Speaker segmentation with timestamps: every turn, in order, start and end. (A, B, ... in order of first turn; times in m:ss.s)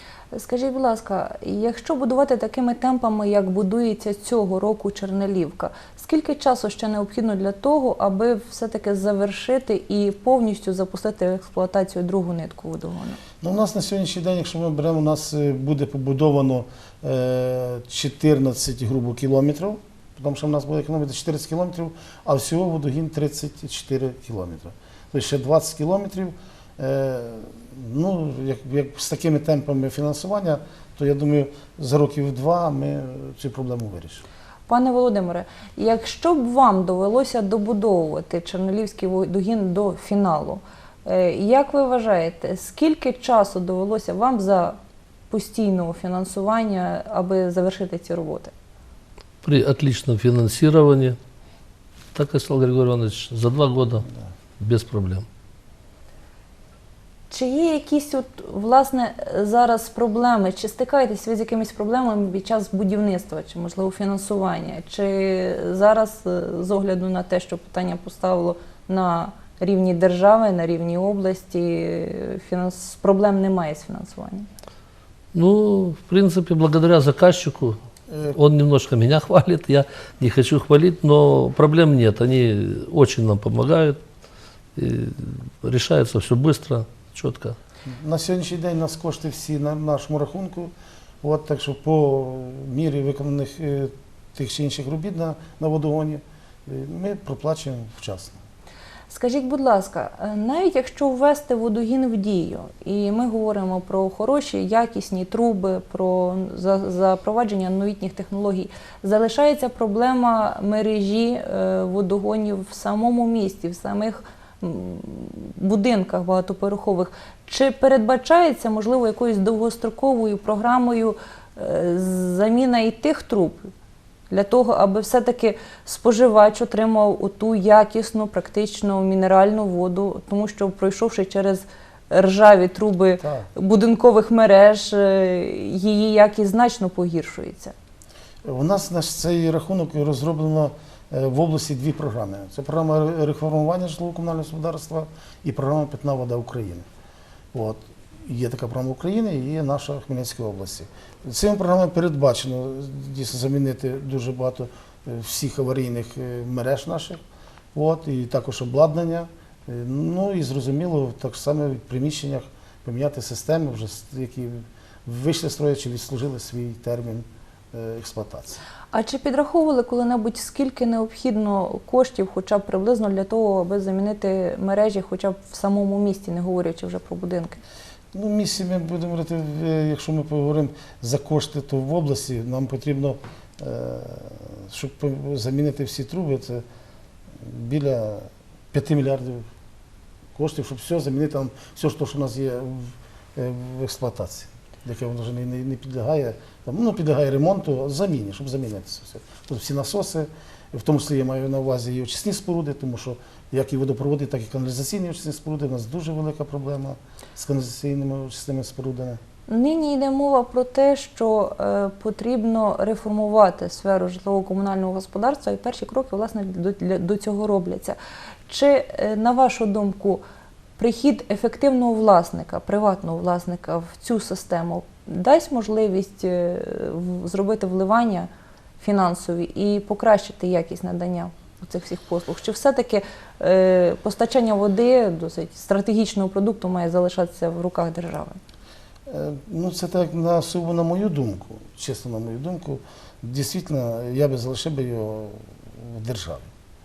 0:00.3-0:13.2 A
0:13.4-0:34.2 B
0:34.7-0:44.8 A
0:45.3-0:48.5 A
0:49.4-0:51.2 C
0:52.1-0:54.1 C
0:54.6-0:55.2 C
0:57.3-1:14.5 A
1:15.3-1:17.8 C
1:18.3-1:24.0 C
1:24.8-1:27.6 C
1:27.8-1:30.7 B
1:31.2-1:38.4 B
1:39.1-2:03.7 A
2:04.3-2:17.7 A
2:13.2-2:13.5 B
2:18.4-2:26.8 B
2:27.5-2:37.2 B
2:37.7-2:48.6 B
2:48.9-2:57.6 A
2:58.1-3:06.6 B
3:07.4-3:09.5 B
3:10.3-3:29.2 B
3:29.5-3:40.2 A
3:40.8-3:48.3 A
3:48.8-3:58.4 A
3:59.1-4:06.5 B